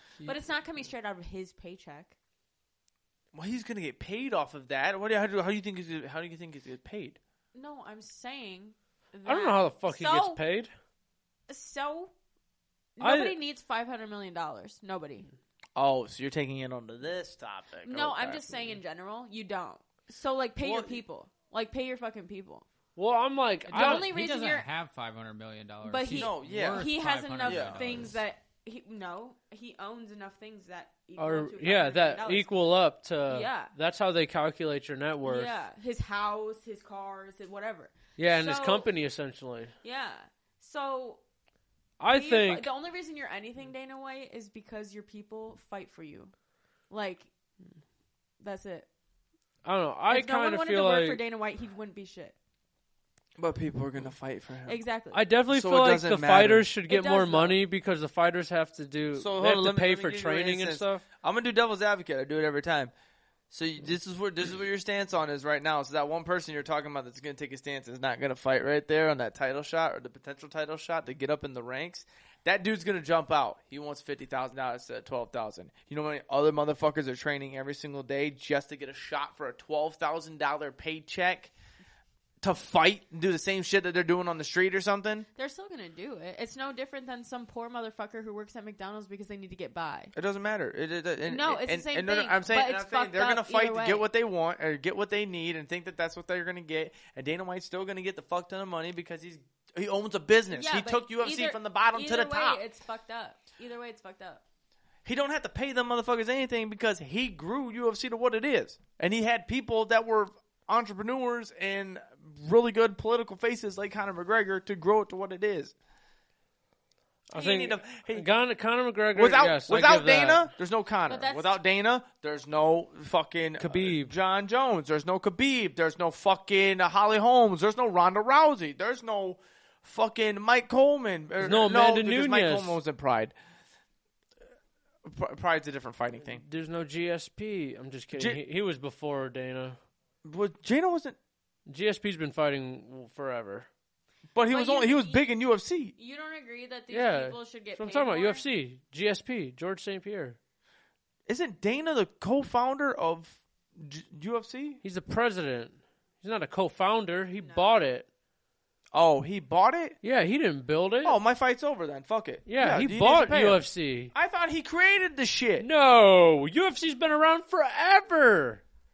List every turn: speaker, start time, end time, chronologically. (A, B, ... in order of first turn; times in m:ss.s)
0:00.2-0:02.2 A
0:03.3-0:07.2 B
0:07.5-0:10.4 A
0:09.2-0:10.7 C
0:11.5-0:12.1 A
0:13.0-0:15.3 A
0:13.0-0:13.3 C
0:15.8-0:18.8 B
0:17.8-0:22.6 A
0:20.6-0:21.0 B
0:23.0-0:24.1 C
0:23.7-0:28.2 D
0:23.7-0:24.7 A
0:25.8-0:32.5 A
0:26.1-0:28.1 B
0:31.2-0:35.5 C
0:33.2-0:33.7 A
0:35.2-0:38.9 A
0:38.2-0:39.7 C
0:39.8-0:41.2 A
0:42.0-0:42.6 C
0:42.1-0:46.3 A
0:46.9-0:47.3 A
0:48.4-0:48.9 A
0:49.6-0:51.2 C
0:50.1-0:52.3 A
0:53.4-0:54.8 B
0:54.7-0:55.2 A
0:55.1-1:01.0 C
0:55.5-0:56.7 B
0:56.9-0:57.6 A
0:59.1-1:02.9 B
1:03.5-1:21.5 B
1:22.4-1:25.3 B
1:25.4-1:30.1 A
1:30.1-1:42.6 B
1:31.3-1:34.0 A
1:40.5-1:44.4 A
1:45.0-1:55.7 B
1:57.3-2:00.5 C
1:57.3-1:58.3 B
1:59.1-2:13.3 B
2:01.1-2:01.6 A
2:03.6-2:04.1 C
2:11.4-2:12.8 C
2:15.0-2:16.4 B
2:16.2-2:19.8 C
2:18.1-2:18.4 B
2:20.2-2:21.2 B
2:21.7-2:23.7 C
2:24.3-2:25.9 B
2:24.5-2:25.3 A
2:26.0-2:28.4 A
2:26.9-2:30.4 C
2:31.3-2:34.8 B
2:34.8-2:38.0 C
2:37.4-2:37.9 A
2:38.9-2:40.0 B
2:40.0-2:41.2 C
2:41.0-2:45.6 B
2:42.5-2:44.1 C
2:45.6-2:48.6 C